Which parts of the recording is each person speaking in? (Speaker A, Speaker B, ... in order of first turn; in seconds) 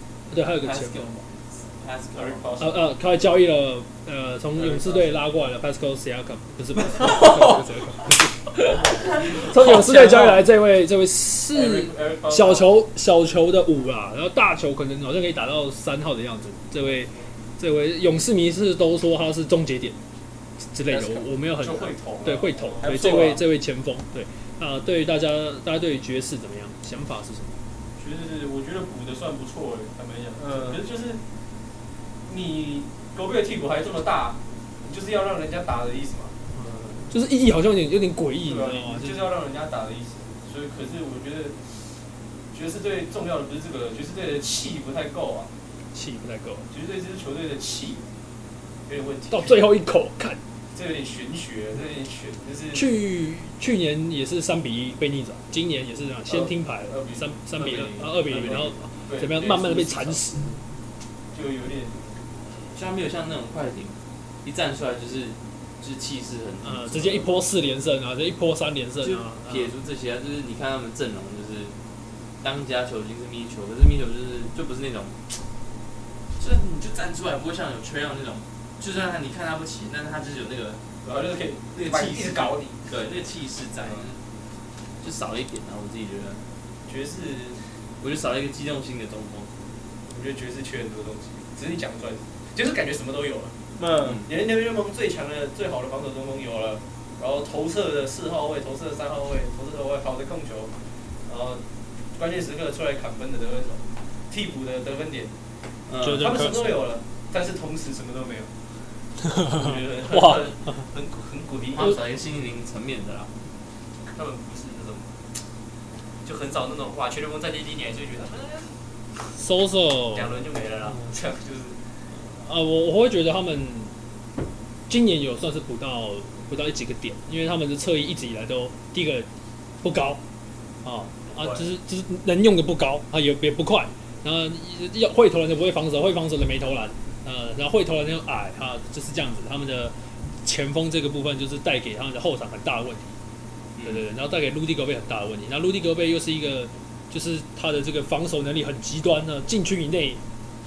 Speaker A: 0.3-1.1, 2.6-20.0, 20.7-27.6, 36.5-39.3, 45.9-46.7, 49.3-50.4, 52.7-60.5, 66.6-69.7, 106.0-106.8, 109.3-110.4, 119.4-121.0, 122.3-123.9, 124.9-129.3, 129.8-130.2, 130.8-143.1, 143.8-150.2
Speaker B: 0.6-2.5, 9.3-10.2, 62.6-67.3, 69.0-71.7, 72.4-75.3, 76.4-80.8, 81.8-84.2, 85.0-86.4, 88.0-89.5, 94.0-94.3, 105.9-106.3, 111.7-113.3, 143.8-144.1
Speaker C: 2.1-2.9, 4.6-5.2, 11.5-12.7, 21.6-23.4, 28.0-31.2, 32.3-36.3, 38.4-41.7, 42.5-45.5, 46.7-48.0, 48.9-49.6, 50.7-52.9, 56.3-60.3, 61.3-62.2, 81.0-83.0, 86.9-87.6, 90.1-93.6, 94.2-100.7, 101.3-101.6, 102.2-105.3, 106.1-108.5, 109.4-112.0, 114.1-115.1, 116.2-118.7, 120.1-121.8, 131.3-131.7
Speaker D: 7.1-7.5, 20.9-21.2, 22.8-23.4, 30.4-30.8, 93.8-94.2